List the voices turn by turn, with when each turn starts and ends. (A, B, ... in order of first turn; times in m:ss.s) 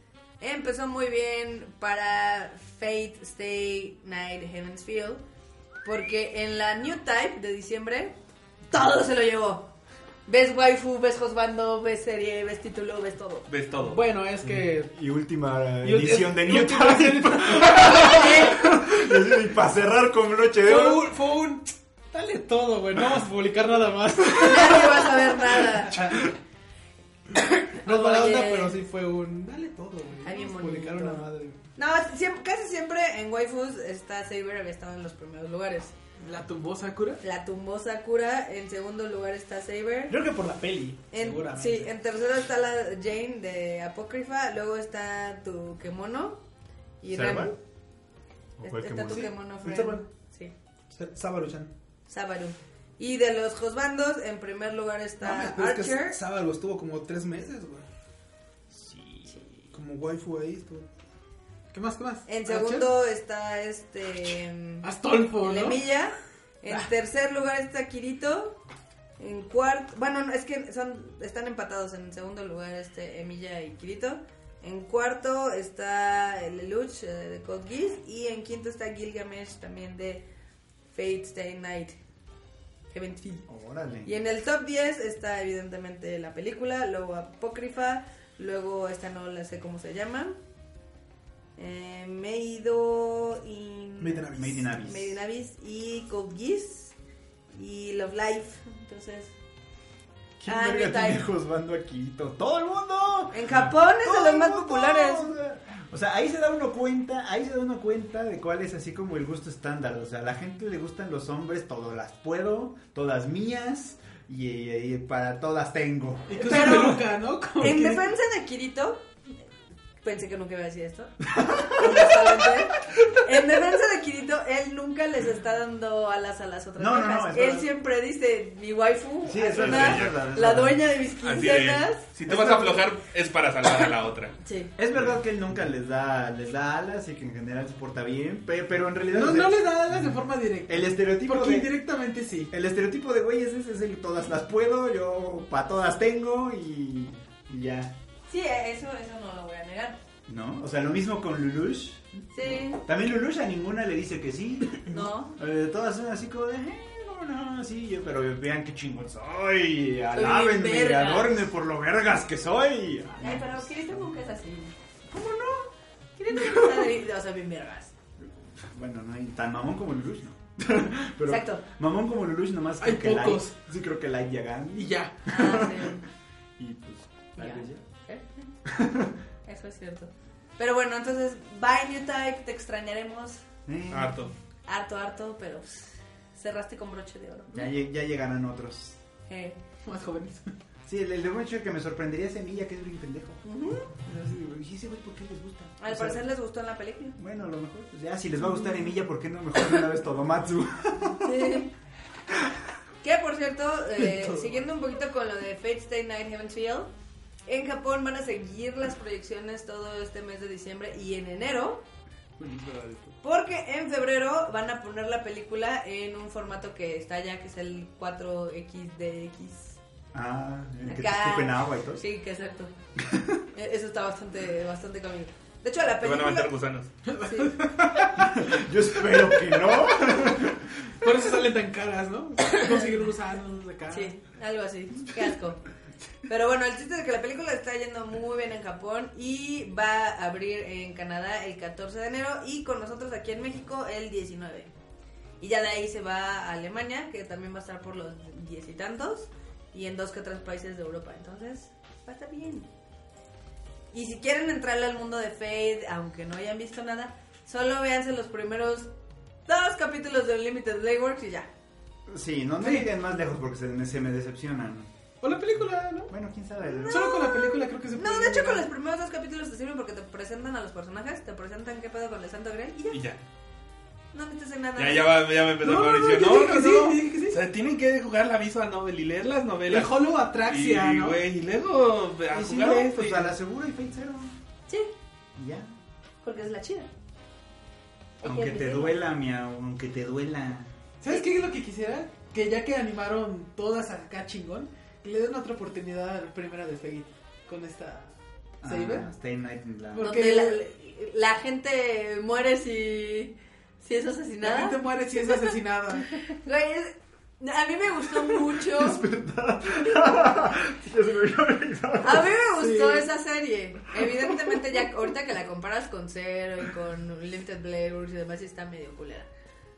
0:00.4-0:05.2 A
0:05.8-0:08.2 A
0:08.7-0:09.7 A
0:10.3-0:13.5 A
0:13.5-0:14.0 B
0:13.8-0:14.9 C
0:14.4-0:21.1 D
0:15.8-0:18.3 C
0:17.8-0:18.6 A
0:20.6-0:26.3 C
0:24.3-0:26.1 A
0:27.4-0:31.6 C
0:27.8-0:28.8 A
0:30.2-0:35.9 A
0:36.2-0:37.2 E
0:37.2-0:40.2 A
0:40.1-0:41.9 C
0:41.1-0:46.4 A
0:47.0-0:47.6 A
0:47.1-0:47.5 D
0:48.6-0:49.3 D
0:48.6-0:50.5 A
0:49.1-0:50.0 C
0:50.9-0:51.7 C
0:52.1-0:56.2 A
0:55.2-0:57.8 C
0:58.7-0:59.4 D
0:59.7-1:00.9 C
1:01.7-1:02.9 E
1:02.3-1:08.6 A
1:04.8-1:05.9 E
1:09.2-1:20.2 A
1:20.9-1:22.0 A
1:22.9-1:23.5 A
1:23.5-1:24.1 D
1:24.0-1:30.4 A
1:31.6-1:36.9 A
1:34.0-1:34.4 C
1:34.3-1:35.2 D
1:37.5-1:39.3 A
1:40.4-1:56.4 D
1:40.5-1:41.3 A
1:43.3-1:45.3 A
1:56.3-1:58.1 E
1:56.3-1:57.0 A
1:57.6-1:59.0 A
2:00.0-2:12.1 A
2:01.3-2:02.0 D
2:06.8-2:07.7 D
2:09.3-2:10.8 D
2:09.6-2:10.2 B
2:11.2-2:14.3 B
2:12.3-2:12.8 D
2:14.4-2:14.7 A
2:14.8-2:19.7 D
2:19.1-2:22.5 E
2:20.7-2:21.7 D
2:22.5-2:27.9 D
2:28.3-2:30.0 A
2:30.3-2:43.7 D
2:32.3-2:32.8 A
2:34.9-2:35.4 A
2:40.1-2:41.4 A
2:43.2-2:44.7 A
2:45.1-2:45.7 D
2:46.2-2:47.9 A
2:46.3-2:46.9 D
2:48.2-2:56.0 D
2:51.2-2:51.6 A
2:52.8-2:53.6 E
2:54.8-2:55.1 E
2:55.3-2:56.0 A
2:56.6-2:57.8 D
2:57.4-2:58.5 A
2:58.7-2:59.1 D
2:59.5-3:03.4 A
3:03.7-3:04.3 D
3:03.9-3:04.3 B
3:04.7-3:07.7 A
3:07.5-3:09.0 D
3:09.3-3:09.6 A
3:09.8-3:10.5 E
3:10.9-3:16.3 D
3:13.4-3:14.0 A
3:15.8-3:17.2 A
3:17.2-3:21.7 D
3:21.2-3:21.7 A
3:23.0-3:26.9 A
3:27.5-3:31.8 A
3:32.4-3:33.1 B
3:33.2-3:39.8 A
3:40.1-3:42.0 D
3:40.8-3:42.7 A
3:43.0-3:43.4 D
3:43.5-3:46.5 A
3:46.0-3:46.9 B
3:47.1-3:48.3 E
3:47.2-3:47.7 A
3:48.1-3:50.8 D
3:51.0-3:54.2 E
3:53.9-3:55.6 A
3:56.3-4:04.7 A
4:05.4-4:12.7 A
4:13.9-4:18.9 A
4:19.5-4:21.5 A
4:22.1-4:24.9 D
4:22.6-4:22.9 E
4:25.2-4:26.1 E
4:26.1-4:27.0 D
4:26.6-4:33.0 A
4:26.9-4:28.7 E
4:32.9-4:33.2 B
4:34.1-4:35.2 A
4:34.8-4:43.3 B
4:35.6-4:37.4 E
4:39.7-4:41.2 E
4:42.4-4:44.3 D
4:45.4-4:45.7 D
4:46.2-4:46.9 A
4:48.2-4:49.0 A
4:48.2-4:50.7 D
4:51.0-4:59.1 E
4:58.6-5:00.1 D
4:59.9-5:00.6 E
5:00.0-5:05.4 A
5:04.4-5:06.3 E
5:06.2-5:09.0 A
5:08.3-5:12.3 D
5:12.0-5:19.3 A
5:12.6-5:13.1 E